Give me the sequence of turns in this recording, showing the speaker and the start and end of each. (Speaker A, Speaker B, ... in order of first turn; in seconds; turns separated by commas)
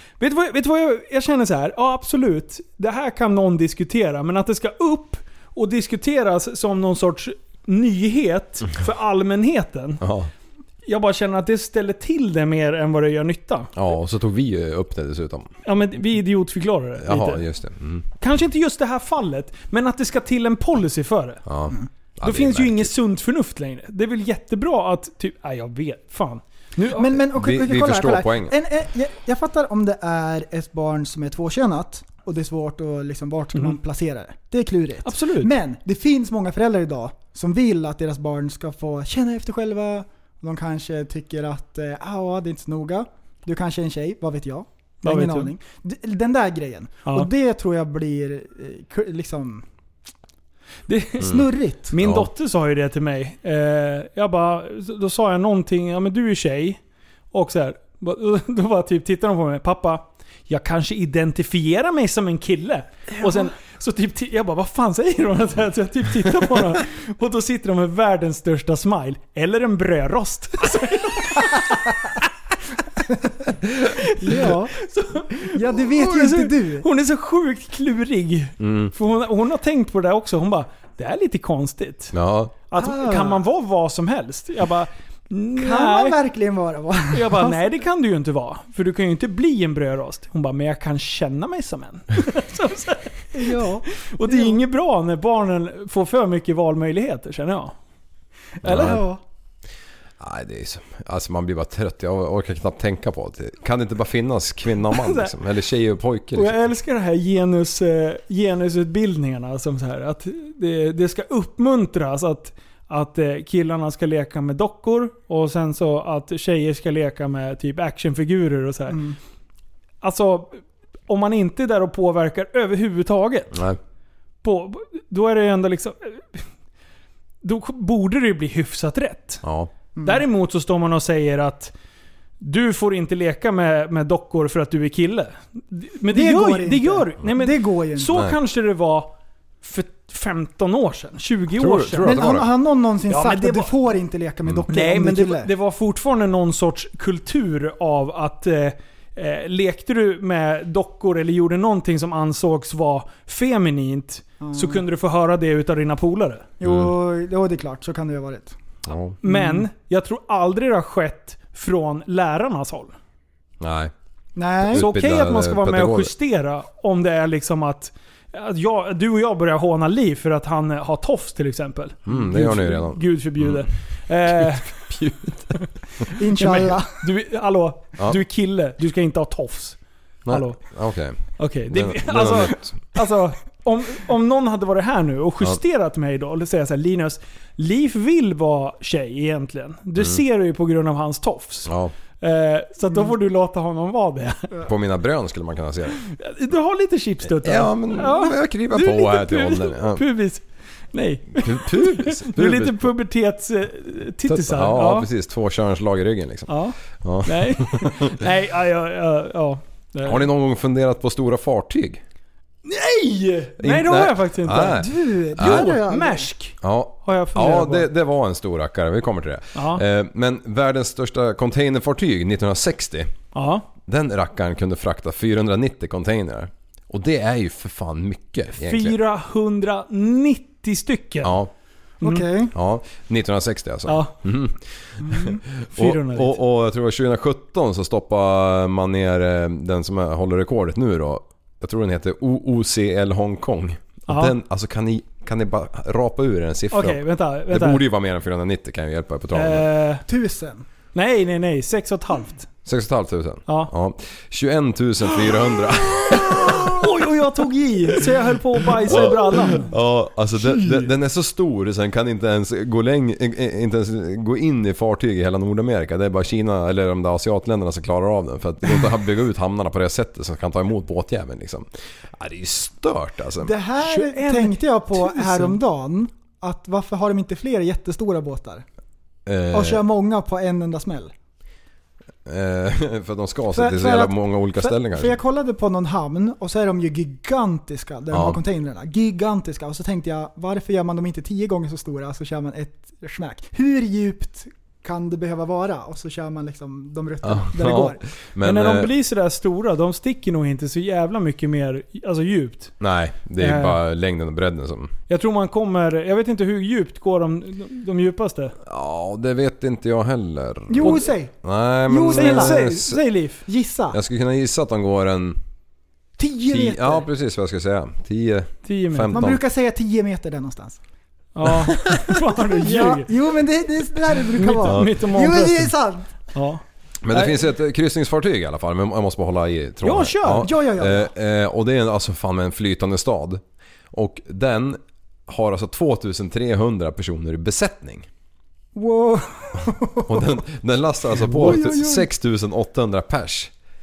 Speaker A: 0.2-10.0, Speaker B: 10.0-10.3, Speaker A: 10.8-13.7, Speaker B: 13.7-15.5, Speaker A: 15.6-17.4, Speaker B: 17.0-18.1, Speaker A: 18.2-21.4, Speaker B: 21.4-22.9, Speaker A: 22.2-27.2, Speaker C: 26.9-49.6, Speaker B: 27.3-28.5, Speaker A: 35.0-35.5, Speaker A: 45.0-45.5, Speaker A: 50.9-56.8, Speaker C: 51.2-51.9, Speaker B: 52.0-52.3, Speaker A: 57.3-72.0, Speaker A: 73.9-82.1, Speaker C: 74.2-74.8, Speaker C: 75.5-76.8, Speaker B: 78.6-78.9, Speaker B: 82.1-82.5, Speaker A: 82.7-86.2, Speaker C: 82.7-83.4, Speaker C: 85.6-87.7, Speaker A: 87.1-97.8, Speaker C: 93.3-94.6, Speaker C: 98.6-99.2, Speaker B: 98.6-99.0, Speaker B: 100.2-106.5, Speaker A: 104.9-105.3, Speaker A: 106.3-119.0, Speaker C: 118.9-119.2, Speaker A: 120.0-123.5, Speaker A: 124.4-126.4, Speaker A: 127.4-129.4, Speaker B: 129.4-129.7, Speaker C: 129.9-130.2, Speaker A: 130.0-131.7, Speaker A: 132.4-142.2, Speaker C: 136.1-138.2, Speaker B: 141.5-142.5, Speaker C: 142.0-145.5, Speaker A: 143.1-143.7, Speaker A: 144.7-156.5, Speaker C: 154.4-154.8, Speaker C: 156.6-158.6, Speaker B: 156.6-156.9, Speaker B: 158.8-159.2, Speaker A: 159.2-162.9, Speaker C: 159.2-159.7, Speaker B: 163.6-163.9, Speaker C: 164.3-164.9, Speaker B: 164.6-166.1, Speaker A: 164.7-174.8, Speaker B: 172.1-173.7, Speaker B: 174.4-175.6, Speaker C: 176.1-177.1, Speaker A: 176.3-179.8, Speaker B: 180.2-182.9, Speaker A: 180.3-180.6, Speaker A: 181.3-194.5, Speaker B: 191.7-191.9, Speaker B: 194.6-196.0, Speaker A: 196.1-205.1, Speaker B: 197.4-200.0, Speaker B: 201.3-202.9, Speaker B: 204.3-208.1, Speaker A: 206.5-210.2, Speaker B: 210.0-212.0, Speaker A: 212.6-217.9, Speaker B: 213.6-215.7, Speaker C: 214.6-216.3, Speaker B: 216.6-223.1, Speaker A: 219.5-219.8, Speaker A: 223.3-223.6, Speaker B: 223.8-228.9, Speaker A: 228.6-231.3, Speaker B: 231.2-231.5, Speaker C: 232.0-232.5, Speaker A: 232.0-232.3, Speaker B: 232.5-249.7, Speaker A: 233.8-234.2, Speaker C: 235.0-235.4, Speaker A: 235.7-236.4, Speaker A: 244.1-244.3, Speaker A: 246.7-247.8, Speaker A: 249.3-250.0, Speaker C: 250.1-250.6, Speaker A: 250.9-252.5, Speaker B: 252.6-256.9, Speaker A: 256.5-259.7, Speaker B: 258.8-273.5, Speaker C: 273.4-278.6, Speaker A: 273.8-275.6, Speaker B: 279.2-279.8, Speaker C: 279.5-281.1, Speaker B: 282.2-285.1, Speaker C: 283.5-298.0, Speaker B: 288.1-288.4, Speaker B: 297.2-298.9, Speaker A: 298.4-302.7, Speaker B: 302.8-304.9, Speaker A: 303.4-303.8, Speaker A: 305.1-308.5, Speaker B: 308.6-313.0, Speaker C: 310.7-312.7, Speaker A: 312.1-313.4, Speaker C: 313.4-314.0, Speaker B: 313.9-315.4, Speaker C: 316.2-317.1, Speaker B: 316.5-319.4, Speaker A: 318.6-319.1, Speaker C: 319.1-320.8, Speaker A: 321.3-323.1, Speaker C: 322.3-326.1, Speaker A: 324.3-325.7, Speaker B: 324.6-324.9, Speaker A: 326.3-327.4, Speaker B: 327.0-338.1, Speaker A: 329.8-330.5, Speaker C: 330.4-331.1, Speaker C: 338.7-340.4, Speaker B: 340.1-343.5, Speaker C: 341.2-342.1